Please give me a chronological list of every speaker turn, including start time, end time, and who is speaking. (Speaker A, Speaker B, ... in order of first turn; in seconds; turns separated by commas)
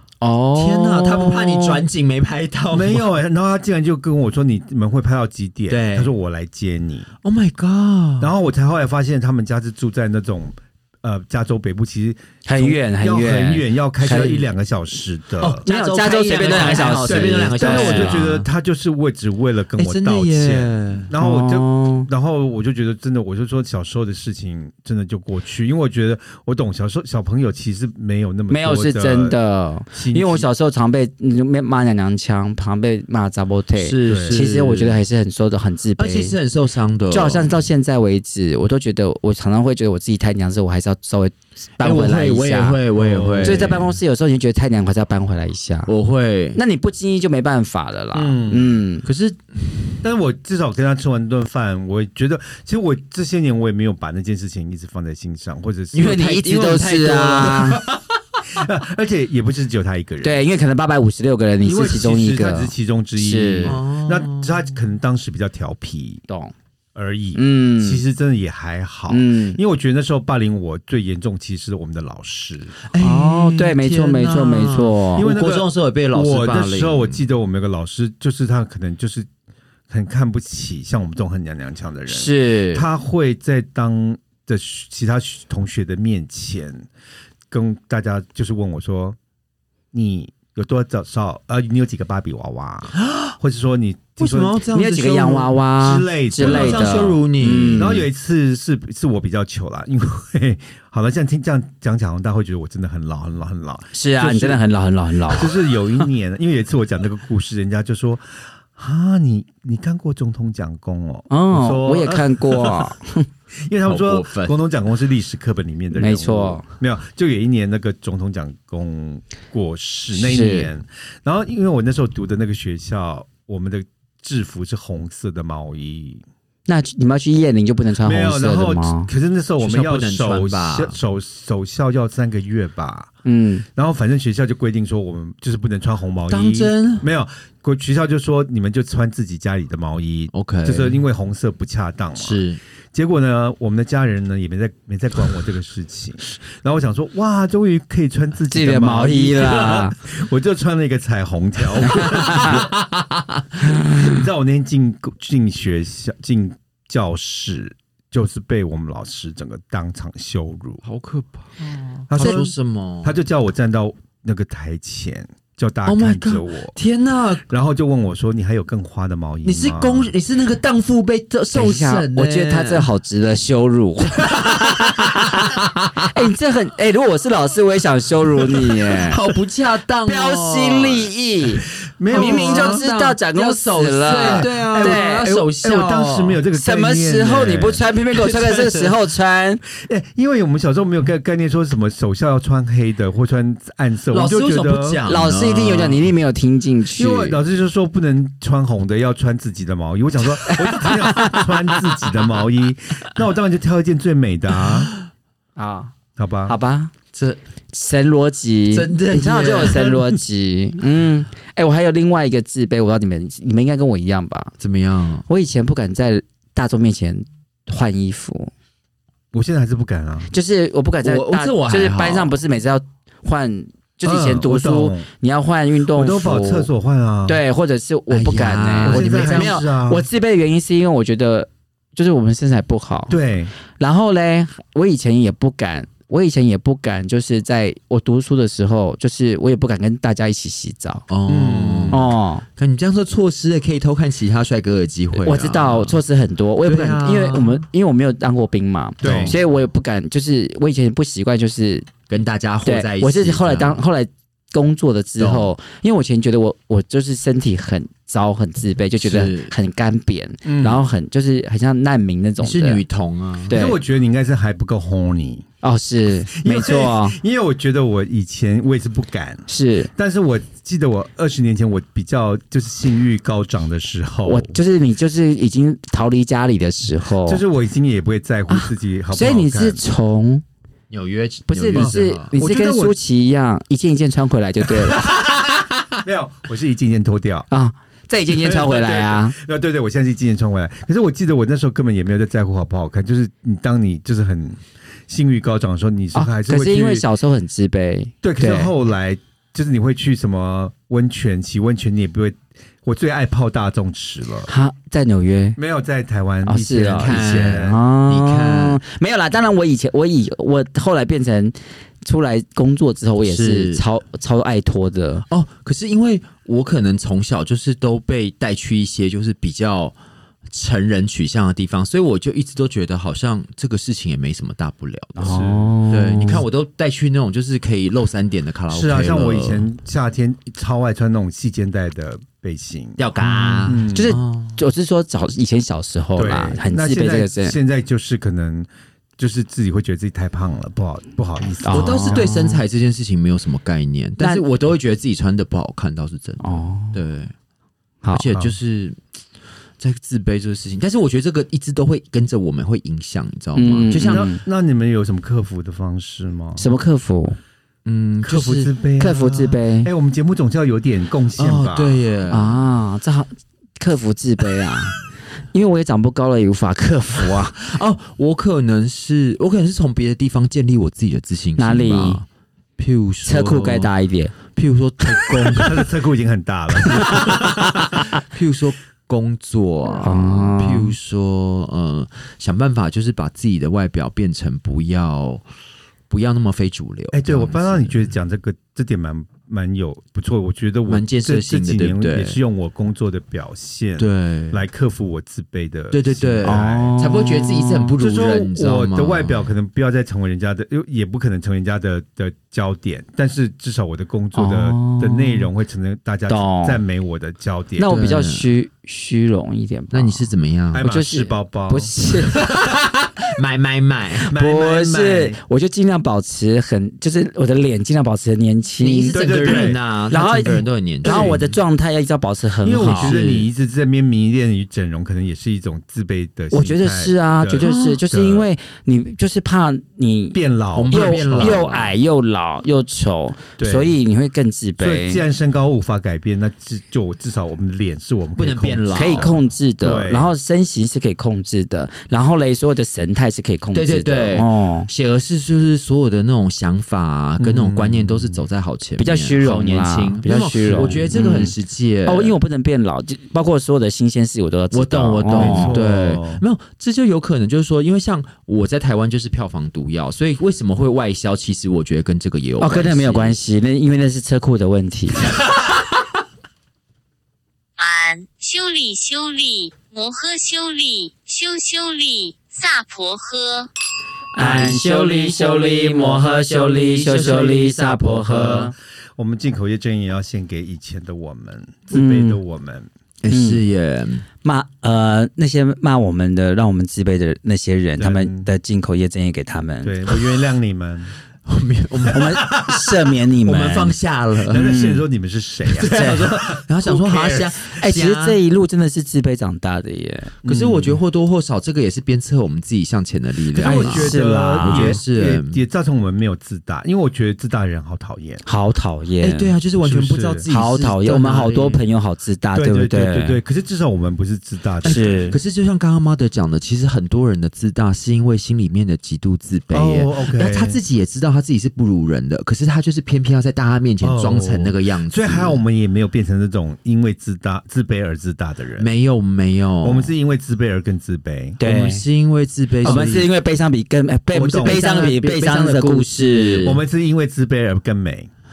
Speaker A: 0.2-1.8, Speaker B: 0.6-3.1, Speaker C: 2.7-7.1, Speaker B: 5.7-6.1, Speaker B: 7.2-8.3, Speaker C: 8.2-15.7, Speaker A: 12.4-14.4, Speaker B: 14.1-14.4, Speaker B: 15.4-18.5, Speaker A: 15.6-18.2, Speaker C: 16.5-29.4, Speaker B: 19.8-21.1, Speaker A: 21.2-22.1, Speaker A: 28.5-36.4, Speaker C: 29.9-30.5, Speaker B: 33.8-35.0, Speaker C: 34.0-34.5, Speaker B: 36.0-37.5, Speaker A: 37.1-42.8, Speaker B: 41.8-43.9, Speaker C: 42.9-43.9, Speaker A: 43.4-45.9, Speaker B: 45.9-46.6, Speaker A: 46.5-49.1, Speaker C: 48.1-48.8, Speaker B: 49.0-49.4, Speaker C: 50.0-56.3, Speaker B: 55.9-58.0, Speaker A: 56.0-57.8, Speaker C: 57.5-58.0, Speaker C: 58.5-60.4, Speaker A: 60.2-63.8, Speaker C: 61.6-66.3, Speaker B: 63.6-64.7, Speaker A: 66.3-66.5, Speaker C: 67.0-72.8, Speaker A: 67.3-68.0, Speaker A: 69.1-69.6, Speaker B: 72.9-77.2, Speaker A: 73.0-75.3, Speaker C: 75.2-79.3, Speaker C: 79.9-86.9, Speaker A: 82.1-82.8, Speaker C: 87.5-89.2, Speaker C: 89.9-94.6, Speaker B: 92.9-93.4, Speaker B: 94.2-95.6, Speaker A: 94.7-98.0, Speaker C: 95.8-97.2, Speaker B: 96.4-98.0, Speaker C: 97.7-104.6, Speaker A: 103.9-105.5, Speaker C: 105.3-112.9, Speaker A: 111.3-113.3, Speaker C: 113.6-126.2, Speaker B: 113.9-114.5, Speaker A: 116.0-116.7, Speaker A: 120.2-120.7, Speaker A: 126.7-129.1, Speaker C: 128.0-133.1, Speaker B: 129.6-131.0, Speaker A: 133.2-133.7, Speaker C: 133.8-152.7, Speaker B: 136.3-137.1, Speaker B: 140.3-141.0, Speaker B: 142.2-142.6, Speaker A: 148.5-150.0, Speaker A: 151.9-152.5, Speaker B: 152.0-153.6, Speaker A: 153.7-154.1, Speaker C: 153.8-160.8, Speaker B: 160.8-163.2, Speaker C: 162.1-166.8, Speaker B: 165.9-167.5, Speaker C: 167.5-170.1, Speaker B: 169.4-172.9, Speaker A: 171.5-179.2, Speaker B: 174.4-175.0, Speaker B: 178.9-181.1, Speaker A: 180.1-185.3, Speaker C: 182.0-182.9, Speaker B: 182.1-186.4, Speaker C: 184.1-188.9, Speaker A: 186.5-189.6, Speaker C: 189.7-195.0, Speaker B: 194.1-196.1, Speaker A: 195.1-197.4, Speaker C: 197.0-204.9, Speaker B: 200.4-201.4, Speaker A: 205.6-205.9, Speaker C: 206.2-206.5, Speaker A: 206.5-206.9, Speaker B: 207.1-207.4, Speaker A: 207.7-214.5, Speaker B: 208.7-209.9, Speaker C: 209.7-210.1, Speaker B: 214.6-215.2, Speaker A: 215.3-218.5, Speaker C: 219.3-220.3, Speaker A: 220.3-226.7, Speaker B: 221.0-222.3, Speaker C: 224.0-225.1, Speaker C: 225.9-227.4, Speaker A: 227.3-233.2, Speaker B: 228.1-229.6, Speaker C: 228.8-230.1, Speaker C: 233.1-233.5, Speaker A: 233.7-241.1, Speaker B: 241.1-246.0, Speaker C: 241.3-242.1, Speaker A: 241.9-242.4, Speaker A: 245.2-251.9, Speaker B: 246.6-247.6, Speaker C: 249.0-249.4, Speaker B: 249.0-249.4, Speaker B: 252.1-253.8, Speaker A: 252.7-262.8, Speaker B: 255.2-255.5, Speaker B: 259.0-259.5, Speaker C: 260.4-260.9, Speaker B: 262.4-263.6, Speaker A: 263.5-263.8, Speaker C: 263.5-265.4, Speaker A: 265.6-267.2, Speaker C: 266.3-274.6, Speaker A: 269.5-269.9, Speaker A: 274.3-277.4, Speaker C: 277.2-279.8, Speaker A: 278.5-280.4, Speaker B: 280.9-282.3, Speaker A: 281.5-285.1, Speaker C: 281.7-283.0, Speaker B: 285.1-285.6, Speaker C: 286.0-287.5, Speaker A: 287.5-289.4, Speaker C: 288.3-297.1, Speaker A: 296.1-298.7, Speaker C: 298.2-304.5, Speaker A: 304.5-305.6, Speaker C: 305.6-307.8, Speaker A: 306.5-315.2, Speaker B: 307.0-308.8, Speaker B: 313.2-313.8, Speaker B: 315.3-320.0, Speaker B: 320.5-325.4, Speaker A: 325.2-326.4, Speaker C: 325.2-325.7, Speaker B: 325.9-329.7, Speaker C: 328.7-333.0, Speaker B: 333.0-334.6, Speaker A: 333.2-337.6, Speaker C: 333.7-334.2, Speaker C: 336.2-342.3, Speaker A: 341.6-342.6, Speaker B: 341.7-347.3, Speaker A: 346.4-347.0, Speaker B: 348.1-349.0, Speaker B: 349.8-354.3, Speaker A: 353.6-354.4, Speaker C: 354.0-356.6, Speaker A: 356.6-357.4, Speaker B: 357.9-358.7, Speaker C: 358.2-362.0, Speaker A: 359.0-359.9, Speaker B: 361.4-362.6, Speaker A: 362.3-365.0, Speaker A: 365.5-367.6, Speaker B: 367.2-372.3, Speaker A: 371.6-372.2, Speaker B: 372.8-373.9, Speaker A: 373.2-374.4, Speaker B: 374.5-375.9, Speaker C: 375.5-377.8, Speaker A: 376.9-377.7, Speaker B: 377.1-385.4, Speaker A: 380.0-380.9, Speaker B: 386.1-388.1, Speaker C: 387.1-396.9, Speaker B: 390.9-392.4, Speaker B: 394.0-394.6, Speaker B: 395.9-399.5, Speaker A: 396.4-397.9, Speaker C: 398.0-408.0, Speaker A: 404.4-405.5, Speaker A: 406.3-406.8, Speaker A: 407.8-412.5, Speaker B: 407.9-408.5, Speaker B: 409.9-410.9, Speaker C: 410.8-411.9, Speaker B: 412.3-414.3, Speaker A: 414.3-423.2, Speaker C: 414.3-415.4, Speaker B: 418.8-421.5, Speaker C: 419.1-419.8, Speaker C: 421.0-421.4, Speaker C: 422.6-428.5, Speaker B: 422.8-423.5, Speaker A: 426.5-430.4, Speaker B: 427.6-428.0, Speaker C: 430.3-431.6, Speaker B: 430.8-431.9, Speaker A: 430.9-435.2, Speaker C: 433.6-434.0, Speaker C: 434.8-440.3, Speaker B: 438.4-439.4, Speaker A: 438.9-444.9, Speaker B: 443.7-452.4, Speaker C: 447.4-448.4, Speaker A: 449.0-451.5, Speaker A: 452.1-455.9, Speaker B: 454.7-463.4, Speaker C: 455.3-456.4, Speaker A: 462.6-465.4, Speaker D: 467.8-473.7, Speaker A: 474.3-478.7, Speaker B: 474.4-475.6, Speaker B: 476.5-478.1, Speaker C: 478.3-482.9, Speaker A: 481.9-482.4, Speaker B: 483.2-484.3, Speaker A: 483.3-483.6, Speaker A: 484.4-490.0, Speaker C: 488.0-488.5, Speaker C: 489.8-491.2, Speaker B: 491.5-494.8, Speaker A: 492.1-494.0, Speaker C: 494.5-497.8, Speaker A: 494.5-495.1, Speaker B: 495.7-498.4, Speaker A: 495.9-496.2, Speaker A: 497.8-500.3, Speaker C: 500.4-501.0, Speaker B: 500.4-505.6, Speaker C: 503.6-508.4, Speaker A: 503.6-505.0, Speaker A: 508.5-509.6, Speaker B: 509.2-511.8, Speaker C: 509.8-510.4, Speaker A: 510.5-513.4, Speaker C: 512.5-515.4, Speaker B: 514.8-525.6, Speaker A: 514.9-515.4, Speaker C: 519.7-520.8, Speaker C: 524.0-528.9, Speaker B: 528.8-530.1, Speaker C: 529.8-531.6, Speaker A: 531.6-532.0, Speaker B: 531.6-533.3, Speaker A: 532.8-536.8, Speaker B: 534.3-536.8, Speaker C: 534.4-534.8, Speaker C: 536.6-538.3